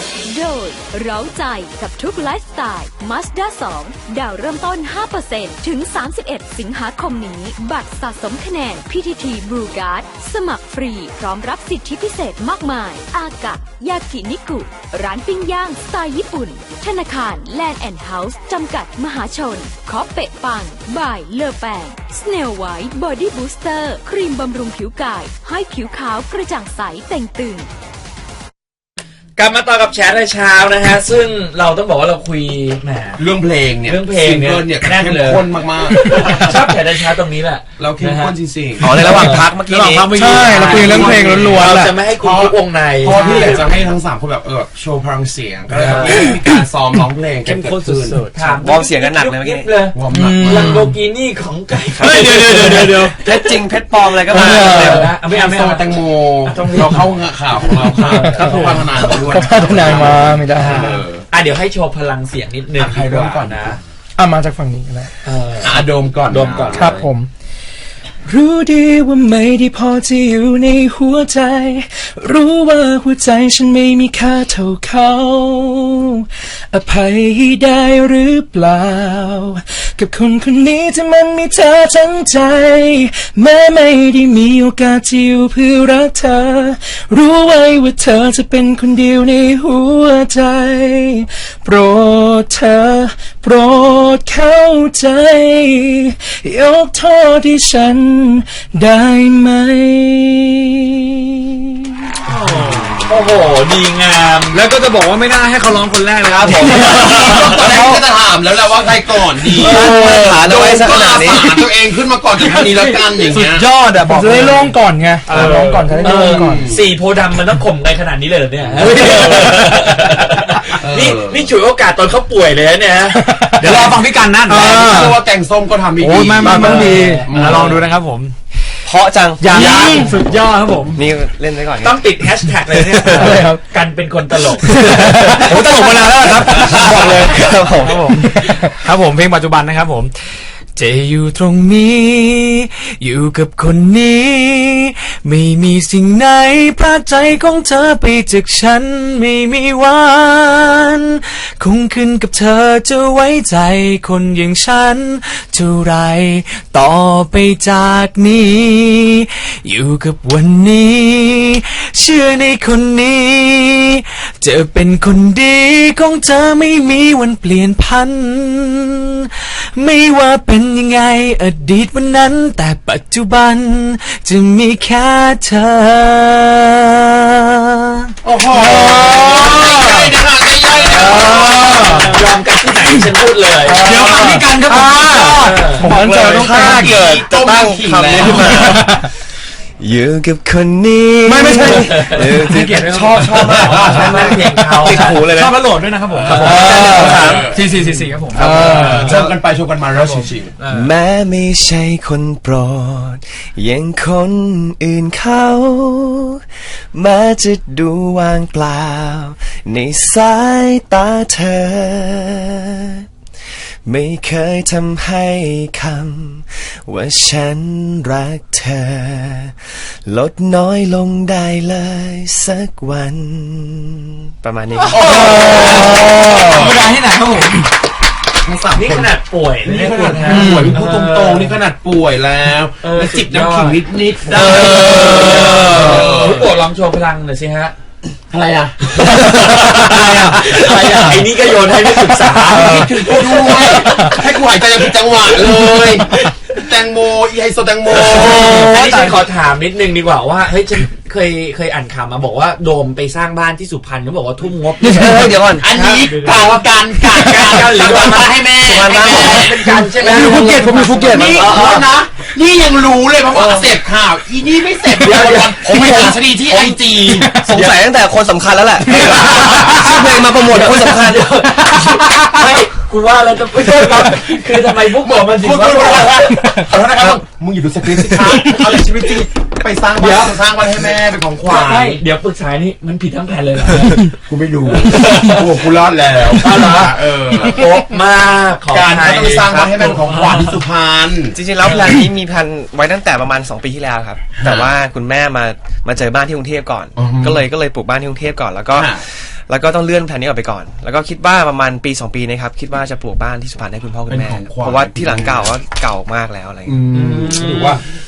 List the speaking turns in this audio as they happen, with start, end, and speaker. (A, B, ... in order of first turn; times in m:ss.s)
0:00.3-0:27.7 A
0:29.4-0:33.2 B
0:33.2-0:36.7 C
0:33.8-0:43.7 B
0:35.9-0:36.4 D
0:37.8-0:39.3 C
0:38.8-0:40.2 E
0:39.0-0:41.0 F
0:40.2-0:42.0 D
0:40.6-0:48.2 C
0:43.1-0:43.6 F
0:45.7-0:46.3 B
0:45.7-0:46.2 F
0:47.4-0:48.7 F
0:48.3-0:52.9 B
0:48.6-0:49.7 E
0:49.9-0:50.9 C
0:50.1-0:50.9 D
0:52.0-0:55.1 E
0:52.0-0:53.2 F
0:54.3-0:55.1 D
0:54.4-1:00.0 B
0:55.1-1:01.2 C
0:58.2-1:01.0 D
1:00.6-1:03.8 B
1:02.8-1:03.8 C
1:04.2-1:05.1 D
1:05.2-1:07.1 B
1:05.6-1:07.0 C
1:06.7-1:07.3 D
1:08.3-1:42.0 D
1:42.3-1:43.0 F
1:43.0-1:44.6 B
1:44.5-1:48.0 F
1:46.5-1:53.7 C
1:46.6-1:47.2 D
1:49.6-1:51.6 E
1:49.6-1:50.3 D
1:52.4-1:56.1 F
1:54.0-1:56.7 D
1:56.0-2:03.3 B
1:56.1-1:56.8 C
1:58.8-2:00.0 F
2:00.8-2:01.5 C
2:03.1-2:03.9 D
2:03.6-2:05.2 F
2:03.6-2:07.9 C
2:06.0-2:08.7 F
2:06.4-2:07.2 D
2:06.6-2:07.7 B
2:08.8-2:09.9 E
2:09.4-2:11.0 F
2:09.5-2:10.2 C
2:09.6-2:10.0 D
2:10.9-2:13.4 E
2:11.8-2:14.8 B
2:13.1-2:13.6 D
2:13.1-2:13.4 F
2:14.7-2:15.5 D
2:14.7-2:57.2 F
2:16.4-2:18.4 E
2:18.2-2:18.7 D
2:58.2-3:02.0 C
2:58.6-3:00.1 F
3:00.8-3:02.2 F
3:00.9-3:03.8 B
3:03.7-3:06.0 F
3:03.8-3:08.8 C
3:03.8-3:04.4 D
3:05.4-3:05.8 B
3:05.8-3:07.0 D
3:05.8-3:08.9 E
3:08.5-3:09.0 D
3:09.8-3:15.6 E
3:11.2-3:12.2 D
3:12.5-3:14.4 C
3:12.5-3:19.4 F
3:13.7-3:15.2 B
3:16.3-3:20.5 C
3:16.3-3:16.8 B
3:16.5-3:17.5 E
3:18.4-3:19.1 D
3:20.0-3:20.7 F
3:20.2-3:20.8 B
3:20.7-3:26.4 E
3:26.9-3:33.0 E
3:33.9-3:45.5 E
3:44.8-3:47.7 F
3:44.9-3:46.8 C
3:48.4-3:56.5 C
3:48.7-3:51.6 B
3:50.3-3:50.8 D
3:52.8-3:57.8 B
3:54.4-3:55.9 F
3:58.3-4:01.2 C
3:58.9-4:04.1 B
4:00.0-4:00.4 F
4:02.5-4:08.7 C
4:07.9-4:16.6 B
4:08.1-4:09.2 F
4:14.9-4:15.4 D
4:14.9-4:15.6 E
4:15.6-4:27.4 C
4:16.0-4:16.7 F
4:17.1-4:21.9 B
4:18.6-4:19.5 E
4:19.7-4:21.8 D
4:23.3-4:23.6 B
4:25.0-4:26.6 B
4:25.8-4:26.1 E
4:27.0-4:27.7 D
4:27.3-4:31.5 E
4:30.8-4:36.3 B
4:31.8-4:32.2 D
4:34.9-4:42.0 C
4:40.0-4:40.4 B
4:41.4-4:44.1 B
4:44.2-4:47.8 C
4:44.9-4:45.4 B
4:46.3-4:49.9 B
4:48.7-4:51.4 C
4:51.3-5:06.8 E
4:54.4-4:54.7 C
4:57.0-4:57.4 C
4:58.8-4:59.0 C
5:04.1-5:05.5 C
5:06.7-5:07.8 C
5:06.9-5:07.8 B